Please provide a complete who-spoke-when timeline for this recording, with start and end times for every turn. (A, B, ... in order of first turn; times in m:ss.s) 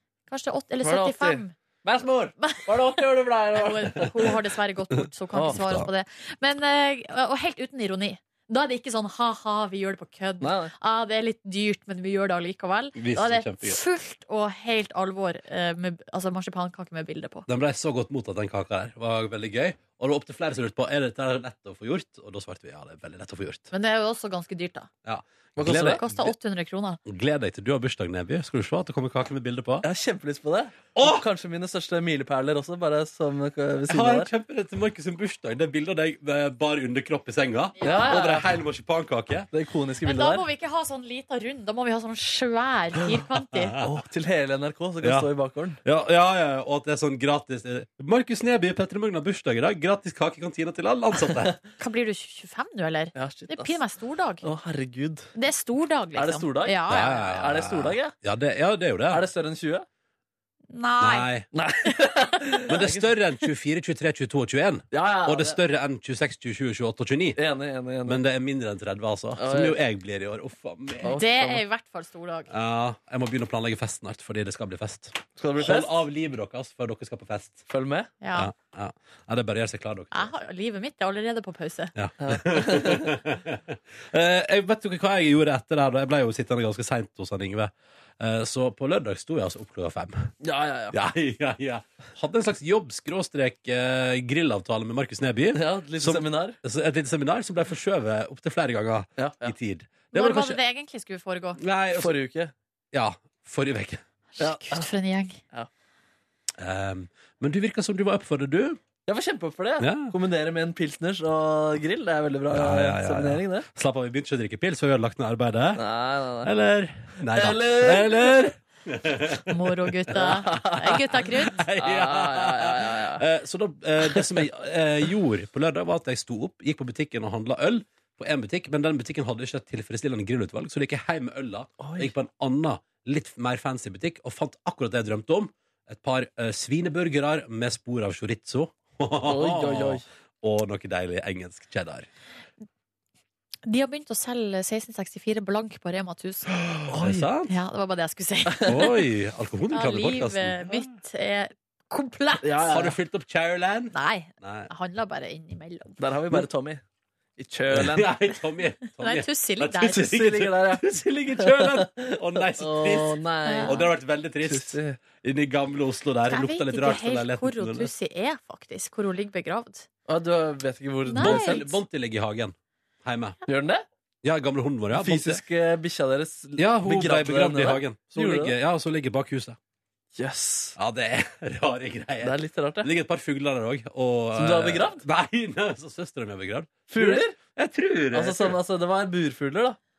0:00.3-0:01.5 A
0:00.8-0:04.3 B
0:02.4-0:17.5 A
0:05.3-0:05.8 B
0:05.5-0:05.9 C
0:10.4-0:10.7 B
0:13.0-0:13.8 C
0:17.5-0:23.7 C
0:23.7-0:24.9 A
0:25.0-0:26.3 C
0:25.6-0:26.0 B
0:25.7-0:27.0 A
0:27.1-0:29.8 C
0:29.8-0:34.3 B
0:31.0-0:31.3 C
0:33.9-0:39.5 C
0:37.8-0:38.5 B
0:39.5-0:40.5 B
0:40.0-0:43.8 A
0:43.8-0:45.8 B
0:45.0-0:45.3 C
0:45.8-0:51.6 C
0:51.8-0:54.4 A
0:53.2-0:53.8 B
0:54.4-0:55.3 B
0:55.4-0:57.2 A
0:56.2-0:58.1 B
0:56.9-0:59.2 C
0:59.1-0:59.9 B
1:00.7-1:01.3 A
1:01.0-1:01.5 C
1:01.5-1:03.1 B
1:02.7-1:07.4 C
1:04.9-1:05.6 B
1:07.4-1:08.2 B
1:08.0-1:11.2 C
1:09.4-1:09.8 B
1:11.0-1:11.6 B
1:11.1-1:12.5 A
1:12.5-1:17.6 C
1:15.4-1:15.9 B
1:17.7-1:18.1 B
1:18.2-1:18.5 A
1:18.4-1:20.3 C
1:20.1-1:21.9 A
1:22.0-1:30.3 C
1:22.2-1:23.2 B
1:30.4-1:31.0 B
1:30.9-1:40.6 C
1:35.6-1:36.6 B
1:39.2-1:39.5 B
1:40.1-1:41.6 A
1:41.6-1:42.2 C
1:42.0-1:42.5 B
1:42.9-1:44.0 C
1:44.4-1:45.4 A
1:44.4-1:44.9 B
1:46.6-1:48.8 C
1:49.1-1:53.7 B
1:49.8-1:50.1 C
1:52.5-1:55.8 C
1:55.8-1:56.5 B
1:56.4-2:00.3 C
1:57.2-1:58.5 B
1:59.5-2:01.6 A
2:00.2-2:03.2 B
2:01.4-2:22.1 C
2:11.8-2:12.1 B
2:19.2-2:20.0 B
2:23.7-2:26.5 A
2:26.5-2:27.5 C
2:26.9-2:27.3 B
2:27.5-2:29.0 A
2:28.6-2:30.9 C
2:29.7-2:32.5 A
2:32.4-2:33.0 B
2:32.6-2:34.7 C
2:33.9-2:36.0 A
2:36.0-2:36.8 B
2:37.4-2:38.1 B
2:37.7-2:47.9 C
2:38.9-2:40.0 A
2:39.9-2:43.9 B
2:43.5-2:43.8 A
2:44.4-2:45.0 B
2:46.3-2:49.9 A
2:50.1-2:51.7 B
2:51.1-2:51.7 A
2:51.2-2:53.4 C
2:53.5-2:53.8 B
2:54.2-2:55.4 C
2:54.9-2:58.6 B
2:56.6-2:59.6 C
3:00.2-3:00.8 B
3:00.8-3:08.6 C
3:02.2-3:02.9 B
3:04.4-3:05.0 B
3:06.9-3:07.4 B
3:08.1-3:09.8 B